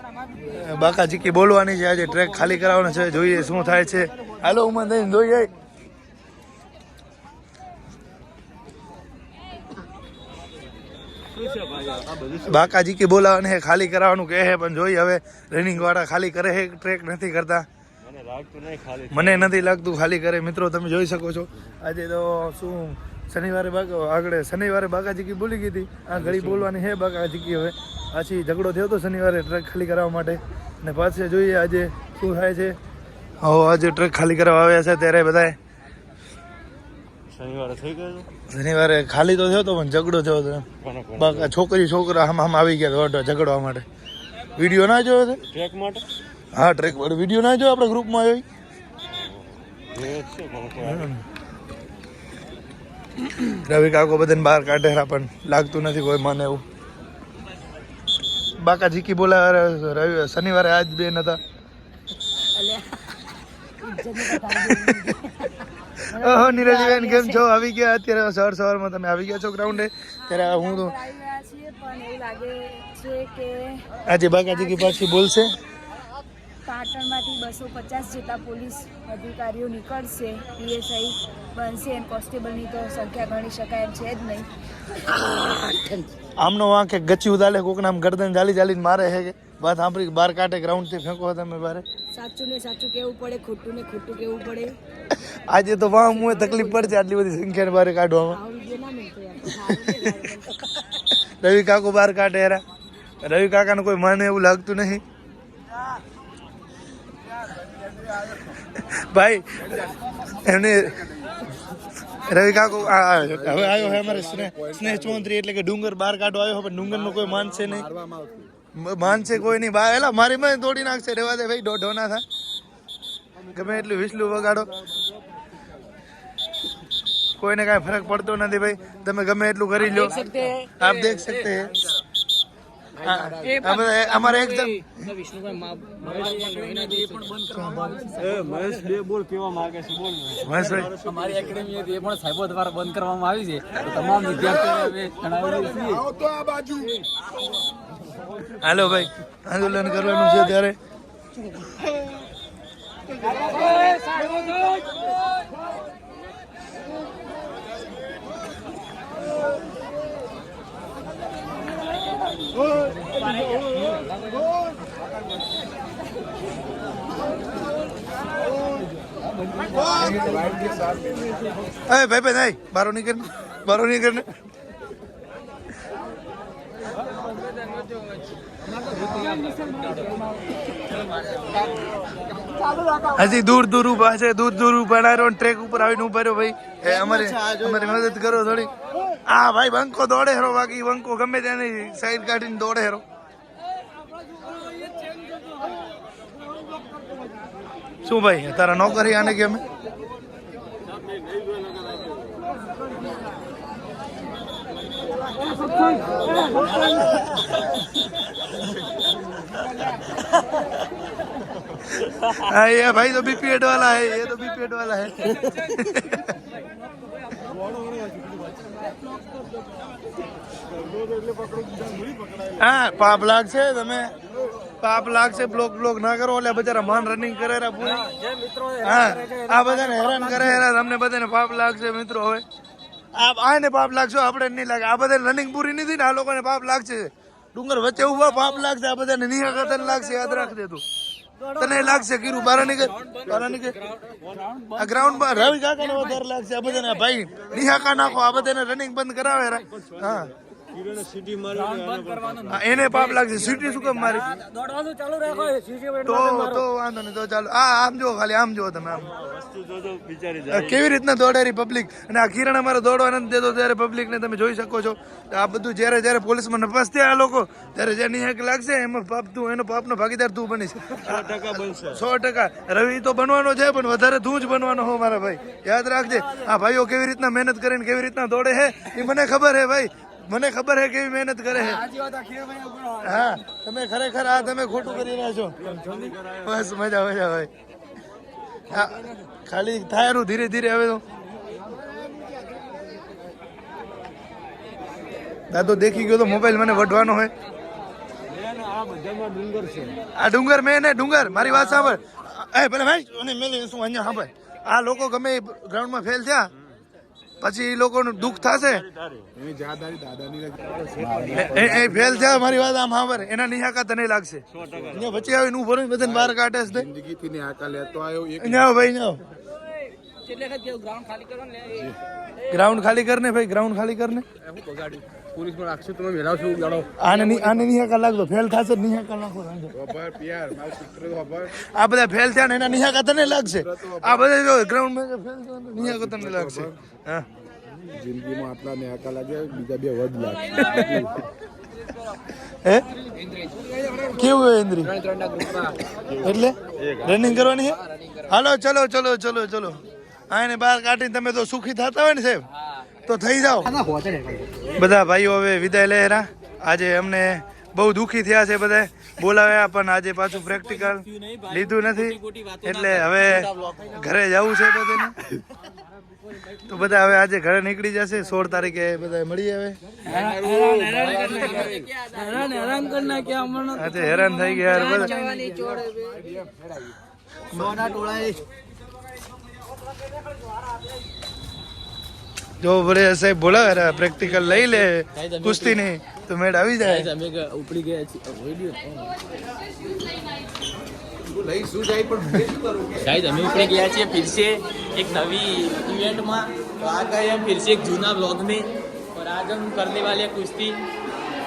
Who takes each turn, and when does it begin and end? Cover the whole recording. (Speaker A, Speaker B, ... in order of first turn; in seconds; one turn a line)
Speaker A: 0.4-5.5
Speaker A: 12.3-17.6
Speaker B: 18.1-19.1
Speaker A: 19.1-32.8
Speaker A: 33.4-35.6
Speaker B: 37.3-38.3
Speaker A: 38.5-43.8
Speaker A: 44.6-45.4
Speaker B: 45.5-46.0
Speaker A: 46.5-48.4
Speaker B: 49.9-50.8
Speaker A: 50.8-51.2
Speaker A: 53.4-56.6
Speaker A: 58.6-61.4
Speaker C: 62.5-63.2
Speaker C: 63.8-67.4
Speaker A: 64.4-65.1
Speaker A: 66.1-71.0
Speaker C: 70.2-73.8
Speaker A: 74.1-75.5
Speaker C: 74.7-75.0
Speaker C: 76.6-84.5
Speaker C: 85.0-86.1
Speaker A: 86.4-91.8
Speaker C: 92.1-94.8
Speaker A: 95.3-98.4
Speaker C: 96.1-97.0
Speaker C: 98.3-100.5
Speaker A: 99.6-100.2
Speaker A: 101.4-102.6
Speaker A: 103.2-105.0
Speaker A: 108.5-109.4
Speaker A: 110.3-111.1
Speaker A: 112.2-117.9
Speaker A: 118.7-122.2
Speaker A: 123.5-124.7
Speaker A: 127.4-131.9
Speaker D: 129.9-130.5
Speaker A: 133.0-135.1
Speaker C: 133.6-134.4
Speaker D: 135.2-138.8
Speaker C: 136.2-137.2
Speaker A: 137.5-137.9
Speaker B: 139.1-140.3
Speaker A: 140.3-140.9
Speaker D: 140.8-146.1
Speaker E: 146.2-146.9
Speaker A: 148.5-150.8
Speaker D: 153.3-154.8
Speaker C: 154.4-154.7
Speaker D: 163.2-163.6
Speaker E: 170.1-171.2
Speaker A: 171.9-174.3
Speaker D: 179.0-179.9
Speaker A: 183.1-188.7
Speaker A: 189.2-193.0
Speaker A: 198.0-199.6
Speaker A: 212.0-216.3
Speaker A: 222.5-224.1
Speaker A: 224.8-228.1
Speaker D: 228.3-228.6
Speaker A: 228.8-232.4
Speaker A: 233.1-240.8
Speaker A: 241.5-243.8
Speaker D: 244.3-244.7
Speaker A: 244.8-250.3
Speaker B: 250.8-251.5
Speaker D: 251.5-252.5
Speaker A: 252.5-254.4
Speaker D: 254.2-256.1
Speaker A: 256.0-259.1
Speaker B: 259.2-260.4
Speaker A: 260.4-281.9
Speaker D: 282.0-282.7
Speaker A: 283.0-287.5
Speaker A: 288.7-291.0
Speaker A: 295.5-297.3
Speaker B: 298.8-299.9
Speaker A: 300.1-306.5
Speaker A: 307.4-308.9
Speaker E: 309.3-310.8
Speaker A: 311.3-316.9
Speaker E: 316.8-318.6
Speaker A: 318.4-319.2
Speaker D: 320.3-321.8
Speaker A: 322.5-324.2
Speaker D: 324.5-326.9
Speaker A: 327.0-329.9
Speaker E: 329.9-331.5
Speaker A: 331.5-337.2
Speaker E: 336.0-336.7
Speaker E: 337.9-341.1
Speaker A: 340.6-340.9
Speaker A: 344.0-344.9
Speaker D: 344.9-345.8
Speaker A: 346.1-352.4
Speaker A: 353.1-353.8
Speaker D: 353.8-354.4
Speaker A: 354.8-365.2
Speaker A: 366.6-369.8
Speaker D: 370.1-373.5
Speaker C: 370.7-371.8
Speaker C: 372.4-373.6
Speaker A: 373.7-375.1
Speaker C: 374.2-376.3
Speaker D: 374.9-375.3
Speaker A: 377.5-377.9
Speaker D: 377.8-378.4
Speaker A: 382.6-387.1
Speaker D: 384.4-385.8
Speaker D: 386.8-389.1
Speaker D: 391.6-392.1
Speaker D: 393.0-400.8